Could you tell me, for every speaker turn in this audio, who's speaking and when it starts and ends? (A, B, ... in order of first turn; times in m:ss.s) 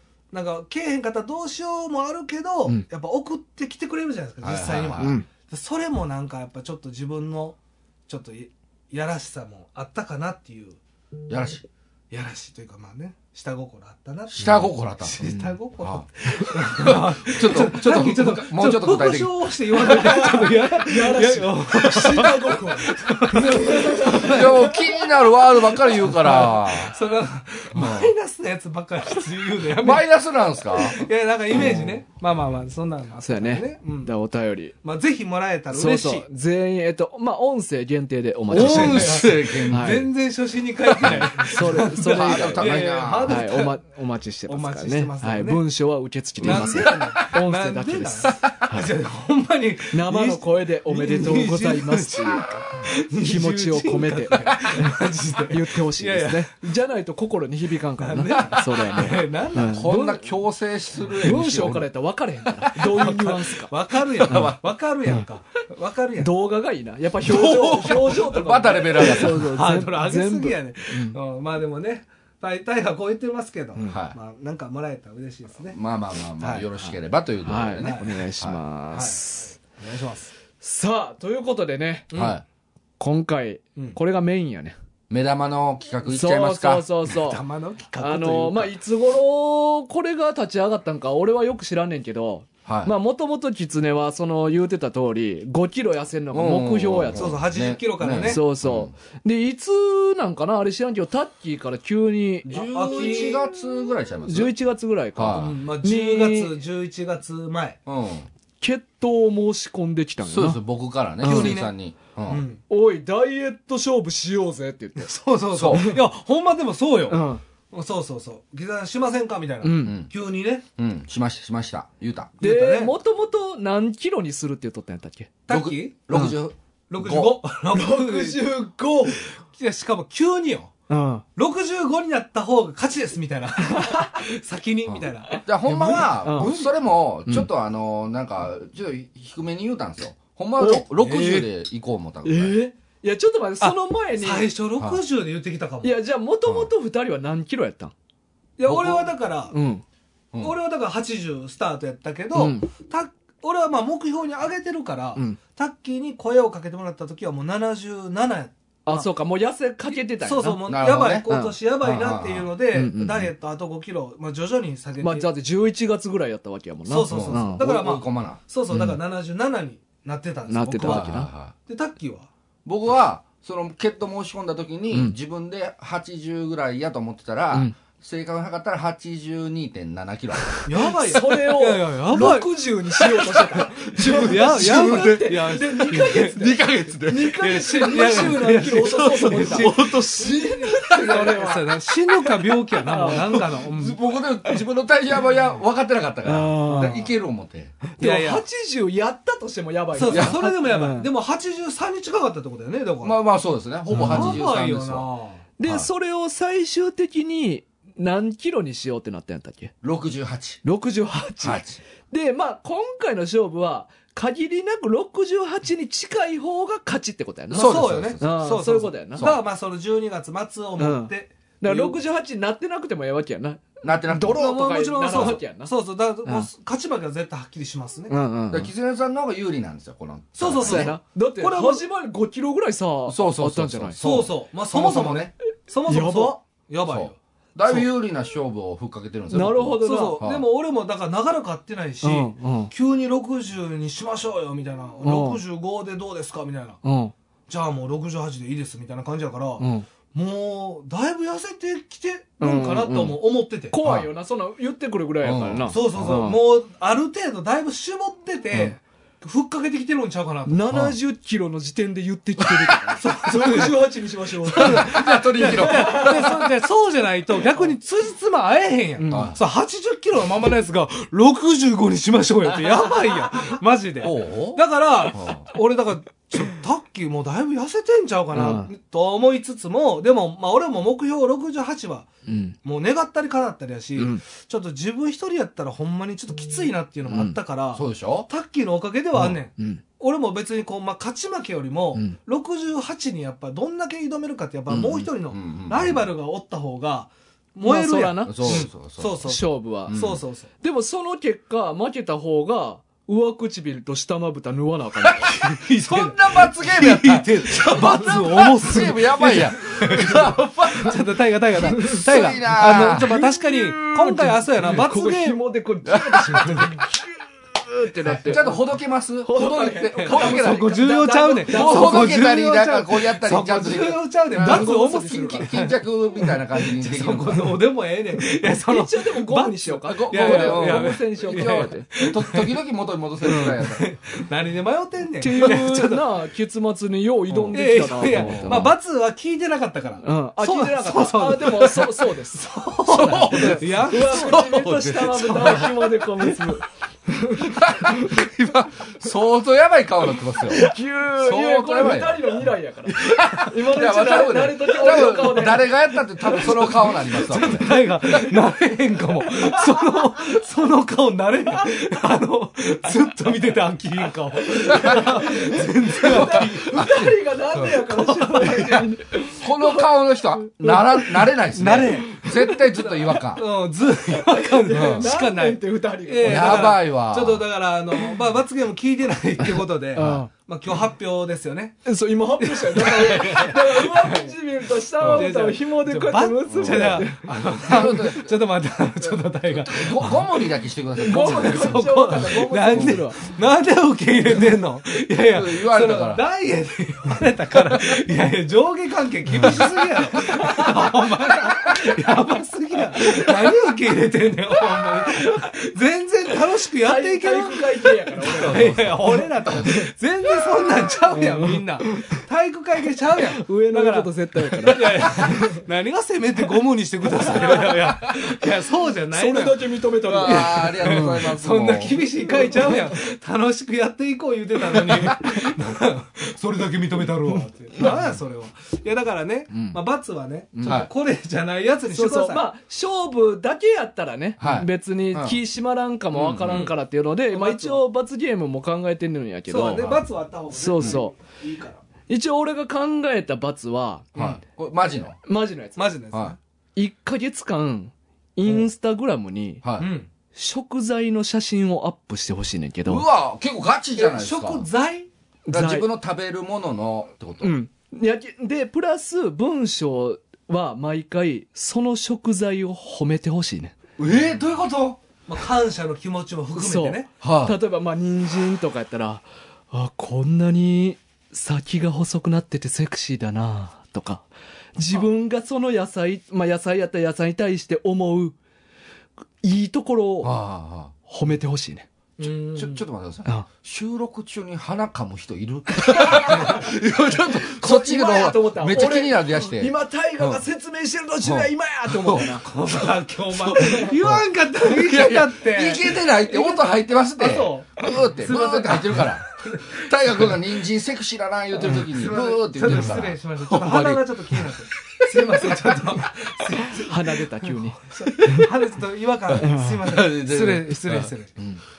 0:00.3-0:10.8 A
0:04.4-0:05.2 B
0:05.0-0:05.2 C
0:11.3-0:11.6 B
0:12.1-0:24.8 A
0:14.3-0:19.3 B
0:19.8-0:24.7 C
0:23.8-0:26.9 B
0:25.8-0:30.1 A
0:27.7-0:28.1 B
0:29.8-0:31.9 B
0:30.6-0:34.1 A
0:31.5-0:31.9 C
0:33.2-0:34.7 C
0:34.8-0:36.2 A
0:35.7-0:40.0 C
0:38.5-0:40.1 B
0:38.5-0:43.8 A
0:40.9-0:43.5 B
0:41.4-0:48.9 C
0:44.5-0:45.6 A
0:46.4-0:47.1 B
0:46.4-0:56.6 A
0:49.9-0:52.5 C
0:53.2-0:55.0 C
0:55.5-1:00.2 C
0:58.0-0:59.9 A
0:59.7-1:01.9 B
1:01.2-1:03.7 C
1:02.8-1:06.3 A
1:04.2-1:04.6 B
1:04.2-1:04.5 C
1:06.2-1:11.2 C
1:07.2-1:15.8 A
1:07.3-1:09.5 B
1:13.9-1:14.2 B
1:15.7-1:18.6 B
1:16.4-1:16.7 A
1:17.4-1:19.5 C
1:17.8-1:18.2 A
1:18.9-1:20.3 A
1:20.6-1:22.1 C
1:22.1-1:22.4 A
1:22.1-1:22.4 B
1:23.0-1:24.7 C
1:25.1-1:27.0 B
1:26.0-1:27.4 C
1:27.1-1:28.7 A
1:28.0-1:37.4 C
1:32.6-1:32.9 B
1:36.3-1:38.9 B
1:37.1-1:38.4 A
1:38.2-1:43.5 C
1:42.4-1:44.5 B
1:42.5-1:43.5 A
1:44.2-1:46.5 C
1:45.2-1:45.5 B
1:45.3-1:47.8 A
1:47.8-1:48.3 B
1:48.6-1:50.6 C
1:50.2-1:52.4 B
1:51.2-1:51.6 C
1:51.2-1:51.7 A
1:52.3-1:52.6 A
1:52.7-1:55.1 C
1:55.0-2:00.6 A
1:55.5-1:55.9 B
1:55.7-1:56.0 C
1:57.1-1:57.4 C
1:59.6-2:00.0 C
1:59.8-2:00.1 B
2:00.8-2:02.3 B
2:02.4-2:03.0 A
2:02.4-2:05.3 C
2:05.5-2:06.1 A
2:05.5-2:07.4 B
2:06.1-2:06.4 C
2:06.9-2:10.7 A
2:07.7-2:09.2 C
2:10.9-2:11.2 C
2:11.4-2:16.5 A
2:13.6-2:14.2 C
2:14.9-2:22.6 B
2:15.3-2:16.7 C
2:20.6-2:21.5 C
2:22.2-2:24.5 C
2:23.6-2:25.9 A
2:25.8-2:27.9 C
2:26.4-2:26.7 B
2:28.6-2:29.5 A
2:28.6-2:29.1 B
2:29.5-2:29.8 C
2:30.4-2:39.1 A
2:32.3-2:32.7 C
2:38.8-2:40.7 C
2:40.2-2:45.3 A
2:40.6-2:41.3 B
2:41.3-2:41.6 C
2:41.8-2:42.5 B
2:42.7-2:43.3 C
2:45.0-2:47.6 C
2:46.8-2:52.3 A
2:47.1-2:48.9 B
2:50.5-2:51.3 C
2:50.8-2:51.5 B
2:52.6-3:00.6 B
3:00.6-3:06.4 A
3:01.0-3:11.8 C
3:03.6-3:08.2 B
3:07.4-3:14.0 A
3:09.3-3:11.3 B
3:12.7-3:13.4 C
3:13.6-3:17.8 B
3:16.2-3:17.0 C
3:16.7-3:17.0 A
3:17.9-3:21.1 C
3:18.0-3:18.4 A
3:19.9-3:23.2 A
3:20.1-3:20.4 B
3:23.0-3:25.1 B
3:23.9-3:24.4 C
3:23.9-3:25.4 A
3:25.6-3:29.7 C
3:25.6-3:25.9 B
3:29.8-3:30.6 B
3:30.6-3:39.3 C
3:31.4-3:31.8 B
3:37.5-3:38.3 B
3:37.5-3:42.0 A
3:39.2-3:39.4 B
3:40.8-3:45.7 C
3:43.8-3:44.5 B
3:44.3-3:48.2 A
3:45.1-3:45.4 B
3:48.1-3:48.7 C
3:48.5-3:50.9 B
3:50.4-3:51.8 A
3:50.6-3:54.0 C
3:53.1-3:55.3 B
3:54.0-3:57.8 A
3:55.8-3:56.4 C
3:56.8-4:00.4 B
3:59.3-4:00.2 C
3:59.8-4:06.8 A
4:02.0-4:02.7 C
4:05.0-4:05.4 C
4:06.8-4:07.1 C
4:07.5-4:13.8 A
4:09.6-4:09.8 C
4:12.4-4:16.4 C
4:13.8-4:14.1 B
4:15.2-4:16.1 B
4:15.7-4:20.7 A
4:20.5-4:26.4 C
4:22.9-4:42.1 A
4:24.5-4:26.3 B
4:29.0-4:29.3 C
4:29.1-4:29.4 B
4:34.0-4:35.5 B
4:38.3-4:38.7 C
4:42.3-4:42.6 C
4:42.6-5:00.5 A
4:44.0-4:44.2 C
4:47.1-4:47.4 C
4:47.7-4:48.3 B
4:49.2-4:49.8 C
4:54.7-4:55.1 C
4:55.3-4:56.1 B
4:57.6-4:58.7 C
4:58.2-4:59.3 B
4:59.2-5:00.0 C
4:59.9-5:00.2 B
5:00.6-5:05.4 C
5:05.3-5:15.4 A
5:05.8-5:13.1 B
5:11.8-5:12.0 C
5:12.7-5:18.6 C
5:15.9-5:16.6 B
5:16.2-5:16.8 A
5:18.1-5:18.6 A
5:18.2-5:20.8 B
5:19.2-5:22.2 C
5:20.0-5:32.5 A
5:21.5-5:27.6 B
5:24.4-5:25.5 C
5:28.6-5:31.9 C
5:29.9-5:33.9 B
5:33.2-5:36.0 A
5:35.2-5:38.7 C
5:37.3-5:38.7 B
5:37.5-5:46.5 A
5:40.0-5:48.2 C
5:42.9-5:44.7 B
5:47.6-5:48.0 B
5:47.9-5:48.7 A
5:48.5-5:52.4 B
5:50.5-5:56.5 C
5:52.9-5:53.5 A
5:53.0-5:57.7 B
5:54.9-5:55.3 A
5:56.2-6:07.0 A
5:59.3-5:59.6 C
6:04.3-6:11.3 C
6:06.0-6:07.7 B
6:07.7-6:08.9 A
6:09.4-6:13.4 B
6:11.5-6:21.8 A
6:12.1-6:12.6 C
6:14.1-6:16.7 C
6:14.7-6:15.1 B
6:16.2-6:17.5 B
6:19.9-6:20.3 C
6:21.8-6:27.3 C
6:22.4-6:24.3 A
6:25.0-6:30.3 A
6:26.5-6:27.0 B
6:27.6-6:28.4 B
6:29.0-6:32.2 B
6:31.0-6:33.2 C
6:31.0-6:54.1 A
6:32.7-6:33.0 B
6:35.2-6:36.2 B
6:40.2-6:40.9 C
6:43.0-6:43.3 C
6:46.8-6:49.9 C
6:48.4-6:49.7 B
6:51.1-6:52.2 C
6:53.3-6:55.6 C
6:54.6-7:12.5 A
6:57.1-6:57.7 C
6:59.1-7:01.3 C
7:00.0-7:02.1 B
7:02.3-7:02.9 C
7:09.5-7:09.8 B
7:10.6-7:10.9 B
7:11.9-7:20.0 C
7:14.4-7:15.4 B
7:16.1-7:16.7 B
7:16.4-7:16.7 A
7:17.3-7:17.8 A
7:19.5-7:21.8 A
7:20.5-7:21.2 C
7:22.1-7:24.2 C
7:24.2-7:25.2 B
7:25.2-7:25.8 C
7:25.8-7:26.4 A
7:26.8-7:29.6 C
7:29.6-7:29.9 B
7:29.8-7:30.1 A
7:30.3-7:33.0 C
7:32.8-7:34.6 B
7:34.0-7:35.1 A
7:35.5-7:35.9 C
7:35.5-7:37.5 B
7:37.4-7:43.8 C
7:44.0-7:45.0 B
7:45.3-7:47.1 A
7:46.5-7:58.4 C
7:47.2-7:47.6 B
7:59.4-8:00.4 C
8:00.2-8:00.9 B
8:01.1-8:01.8 C
8:02.2-8:02.8 A
8:02.5-8:10.4 B
8:05.8-8:06.6 C
8:06.2-8:06.7 A
8:07.5-8:12.5 C
8:11.2-8:12.3 B
8:12.2-8:20.4 A
8:13.5-8:13.9 C
8:14.0-8:25.7 B
8:21.7-8:31.3 A
8:26.7-8:28.5 C
8:29.3-8:31.6 B
8:29.4-8:29.8 C